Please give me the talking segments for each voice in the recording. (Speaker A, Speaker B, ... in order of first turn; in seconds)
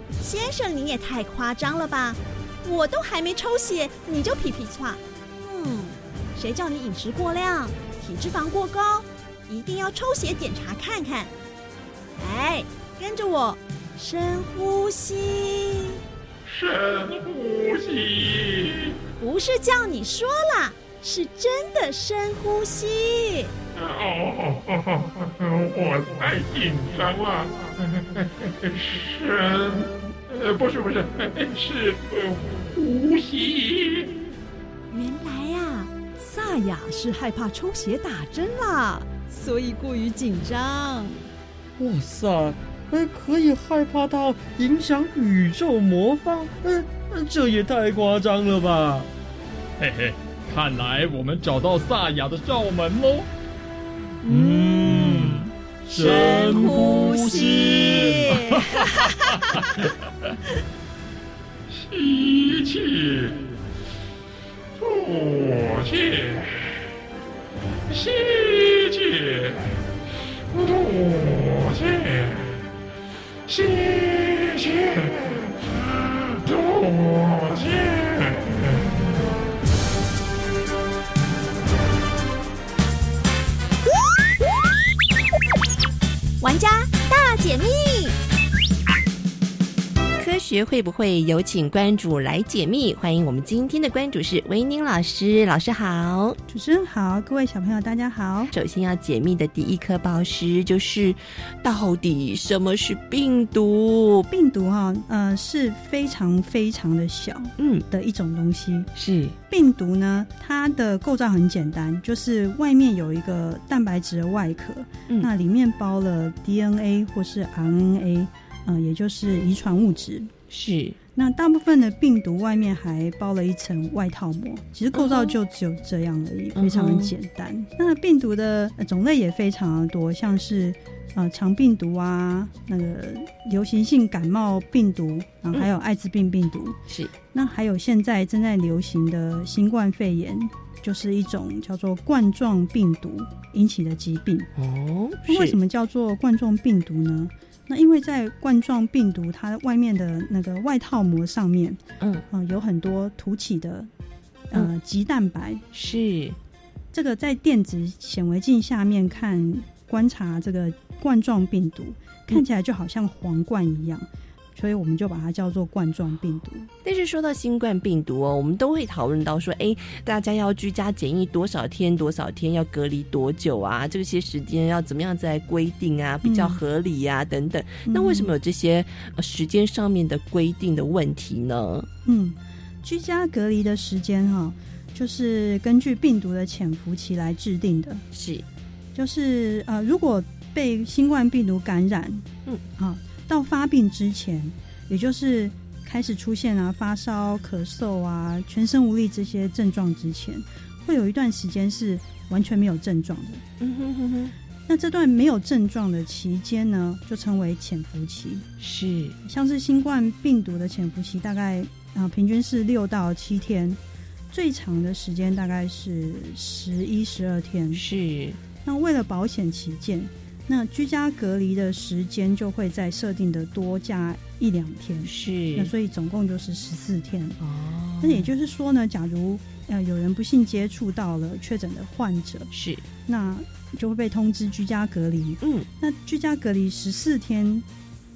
Speaker A: 0.2-11.3, 12.2-16.0, 19.2-23.5, 34.9-41.3, 54.4-54.9, 55.9-59.5, 86.4-88.1
Speaker B: 16.4-18.9, 23.7-34.2, 61.9-63.3, 64.8-66.7, 67.9-69.7, 70.5-72.6, 73.5-75.5, 76.3-78.6
Speaker C: 41.8-49.1
Speaker D: 49.8-53.3, 54.2-56.8, 57.5-58.0
Speaker E: 90.2-96.4, 98.5-104.3, 107.6-107.8, 108.9-109.3, 120.5-121.0, 124.9-125.4, 126.5-127.1, 144.6-145.6, 155.7-156.4, 166.8-181.9, 188.1-188.4, 203.6-204.3, 208.6-209.2, 217.7-218.4, 225.0-225.7, 227.4-228.3, 232.5-232.8, 235.4-235.7
Speaker F: 96.5-98.5, 104.3-108.9, 109.5-120.3, 121.2-136.8, 137.3-144.5, 145.2-151.8, 152.3-153.9, 154.5-155.6, 156.9-166.7, 176.2-176.6, 177.9-178.3, 182.1-188.0, 188.9-192.2, 192.8-203.4, 204.7-208.4, 209.2-213.8, 214.3-217.8, 218.6-227.4, 228.0-232.5, 233.1-237.6